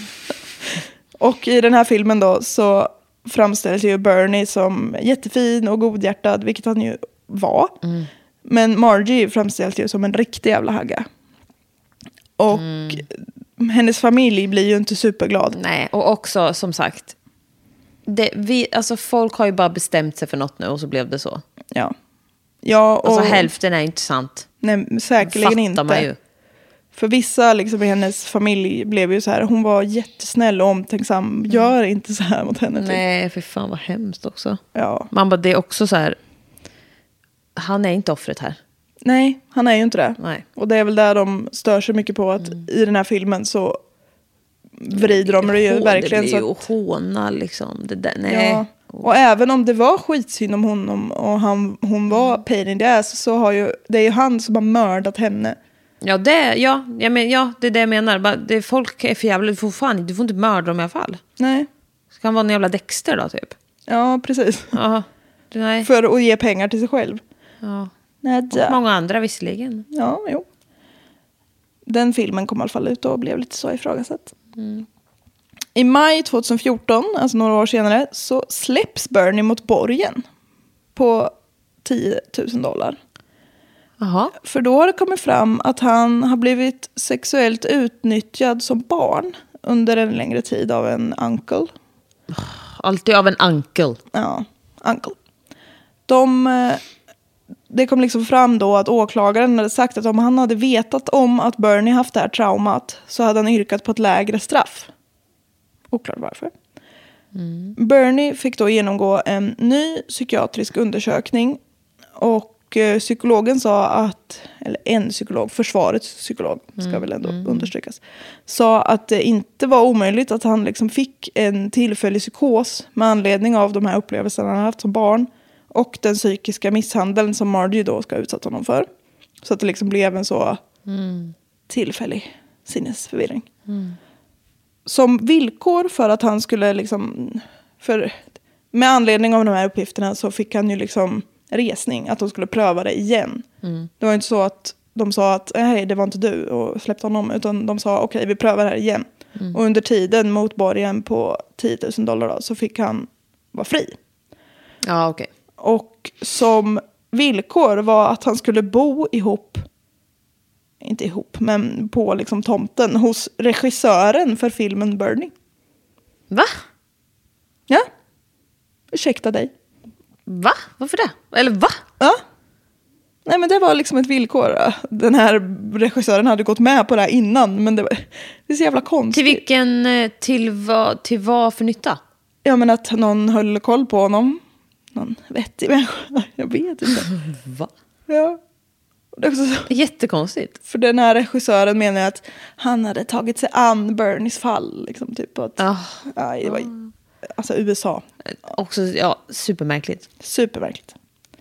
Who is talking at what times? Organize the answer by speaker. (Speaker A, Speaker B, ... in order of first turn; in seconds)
Speaker A: 1.2-7.8, 8.5-11.1, 12.4-15.6, 22.6-23.5, 24.6-26.1, 27.0-33.0, 34.8-35.1, 39.0-43.8, 44.8-46.5, 48.3-55.6, 61.4-61.7, 63.9-64.7, 65.8-67.2, 68.2-68.8, 69.9-70.5, 71.9-74.3, 75.8-80.2, 81.0-81.3, 81.8-83.0, 84.4-91.7, 94.1-95.2, 96.1-96.8, 97.7-104.9, 105.9-106.5, 107.8-111.6, 112.2-128.9, 129.4-130.6, 131.7-133.5, 134.9-138.2, 138.7-143.4, 144.0-154.0, 155.6-159.6, 160.8-165.3, 168.9-169.5, 173.3-179.4, 182.4-184.4, 184.9-187.1, 188.1-188.4, 189.2-189.7, 190.7-196.7, 197.3-198.0, 200.2-200.9
Speaker B: 7.8-8.1, 12.5-13.0, 15.5-17.1, 18.1-21.4, 23.0-24.5, 25.2-26.2, 32.8-34.6, 35.1-36.2, 37.6-38.6, 44.9-49.1, 52.1-52.4, 56.0-61.2, 62.1-63.5, 64.7-65.9, 67.6-67.9, 68.5-69.9, 74.6-74.9, 84.0-84.3, 92.3-94.0, 107.3-107.8, 116.8-117.7, 130.9-131.3, 133.7-134.0, 143.6-143.9, 154.8-155.3, 166.3-166.6, 170.3-171.8, 179.1-182.0, 187.2-187.7, 189.7-190.6, 195.6-196.9, 198.3-200.1